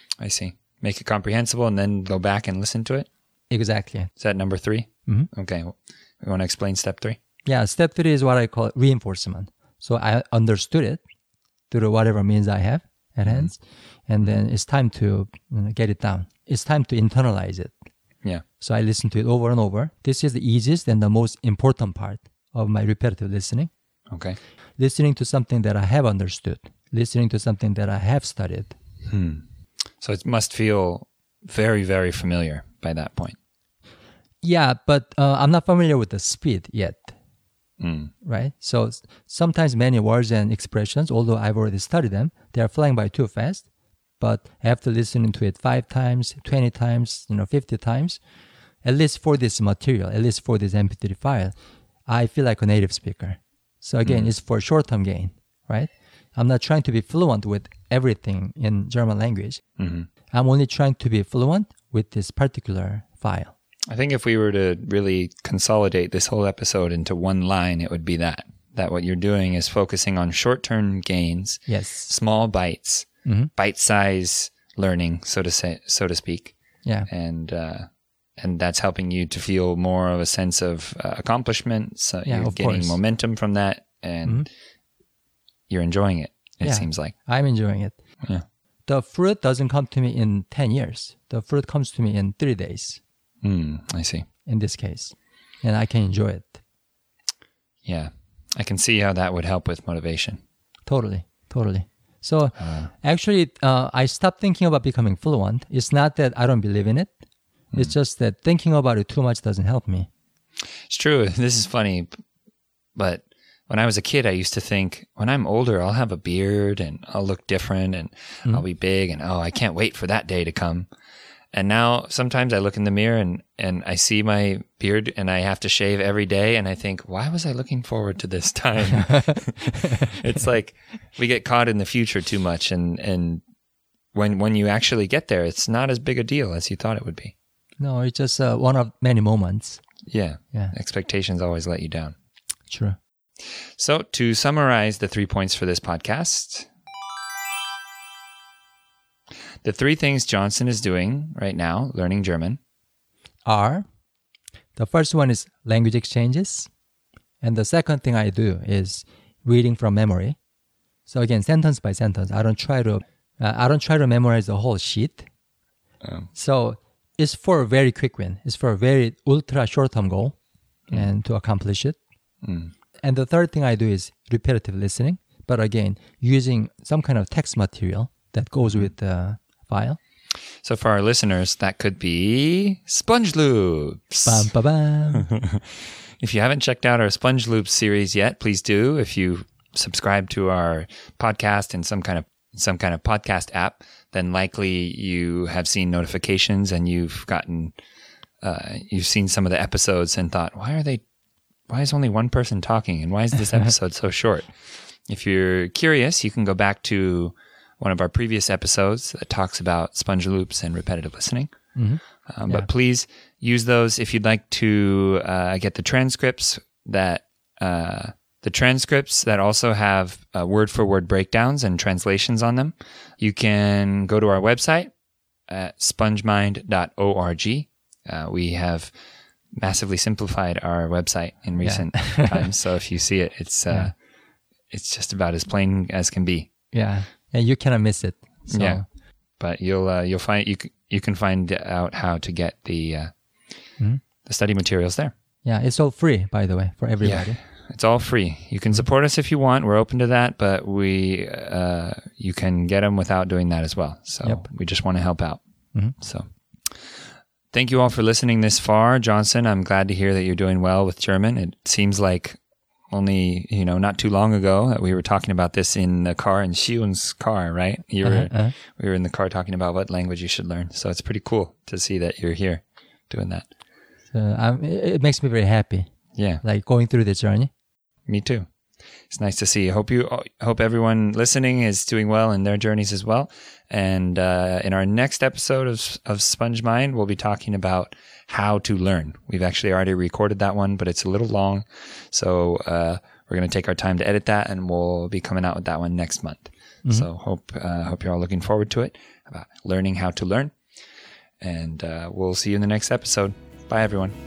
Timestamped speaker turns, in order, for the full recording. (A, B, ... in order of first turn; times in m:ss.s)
0:00.2-0:03.1 A
0:03.5-0:04.1 B
0:04.2-0:07.2 A
0:07.4-0:11.0 B
0:11.7-0:17.7 B
0:18.6-0:23.7 B
0:24.1-0:24.4 A
0:24.8-0:28.7 B
0:29.0-0:29.4 A
0:30.0-0:33.4 A
0:34.4-0:37.1 B
0:37.8-0:38.1 A
0:38.2-0:43.6 B
0:44.2-0:48.2 B
0:48.8-0:51.5 B
0:52.1-0:59.6 B
0:54.0-0:54.3 A
0:59.8-1:00.1 A
1:00.3-1:03.5 B
1:03.9-1:16.5 A
1:11.7-1:12.1 B
1:13.2-1:13.5 B
1:17.1-1:17.9 A
1:18.4-1:24.5 A
1:22.2-1:23.0 B
1:25.7-1:27.1 A
1:26.6-1:28.0 B
1:28.9-1:33.0 B
1:33.4-1:34.2 A
1:34.4-1:36.6 B
1:37.8-1:40.4 A
1:40.9-1:47.1 B
1:42.6-1:42.9 A
1:47.7-1:50.1 B
1:50.9-1:52.1 A
1:53.0-2:00.9 A
2:01.5-2:13.4 A
2:09.0-2:10.1 B
2:14.1-2:17.3 A
2:17.8-2:19.8 B
2:20.1-2:22.1 A
2:22.7-2:23.0 B
2:23.8-2:26.7 A
2:29.6-2:32.6 A
2:33.4-2:33.8 B
2:34.8-2:36.7 B
2:37.4-2:40.4 B
2:41.1-2:45.3 B
2:46.0-2:46.3 A
2:46.3-2:50.3 B
2:50.9-2:52.0 B
2:52.4-2:52.7 A
2:53.0-3:00.0 B
3:00.6-3:04.5 A
3:04.3-3:05.3 B
3:05.1-3:05.6 A
3:06.2-3:17.7 A
3:18.4-3:21.0 A
3:21.7-3:24.5 A
3:25.1-3:31.5 A
3:31.7-3:32.7 B
3:32.3-3:44.9 A
3:45.5-3:48.9 A
3:49.6-3:53.9 A
3:51.6-3:52.5 B
3:54.7-3:56.5 A
3:56.7-3:58.8 B
3:58.5-3:58.8 A
3:59.4-4:03.1 A
4:04.2-4:05.1 A
4:05.4-4:07.4 B
4:07.0-4:15.4 A
4:16.0-4:16.3 A
4:17.5-4:22.4 A
4:22.9-4:33.5 A
4:28.0-4:28.5 B
4:34.1-4:35.9 B
4:36.2-4:36.4 A
4:36.4-4:37.5 B
4:38.1-4:38.5 A
4:39.1-5:00.5 A
5:01.4-5:04.1 A